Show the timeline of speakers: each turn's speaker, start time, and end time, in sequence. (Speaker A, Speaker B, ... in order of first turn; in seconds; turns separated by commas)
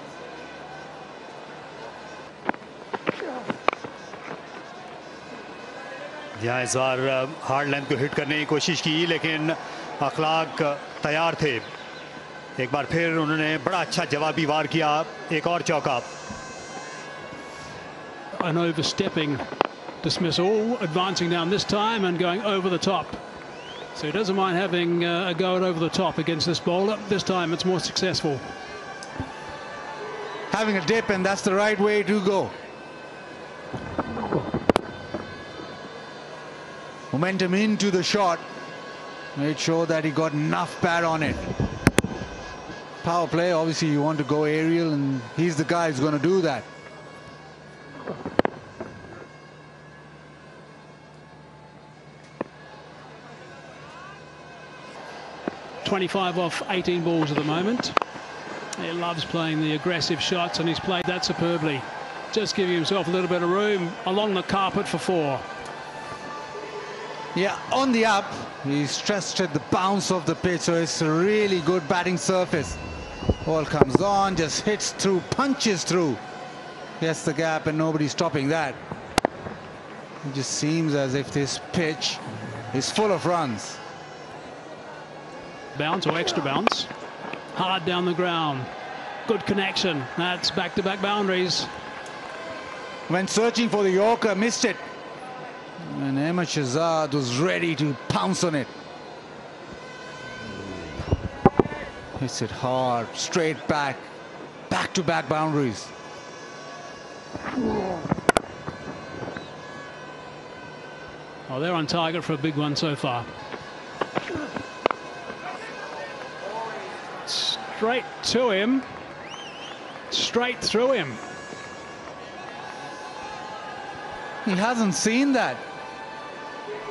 Speaker A: 6.4-11.7, Speaker A: 12.6-16.1, Speaker B: 18.4-19.4, Speaker B: 20.0-23.2, Speaker B: 23.9-28.4, Speaker C: 30.5-32.5, Speaker C: 37.1-38.4, Speaker C: 39.3-41.5, Speaker C: 43.0-46.6, Speaker B: 55.8-58.0, Speaker B: 58.8-65.4, Speaker C: 67.3-72.8, Speaker C: 73.4-76.2, Speaker C: 77.0-78.8, Speaker C: 80.2-83.8, Speaker B: 85.7-86.9, Speaker B: 87.5-88.7, Speaker B: 89.2-91.7, Speaker C: 93.1-94.8, Speaker C: 95.8-98.7, Speaker C: 102.2-104.1, Speaker C: 104.7-105.9, Speaker B: 111.5-113.3, Speaker B: 117.2-118.9, Speaker B: 120.1-121.2, Speaker C: 124.4-125.6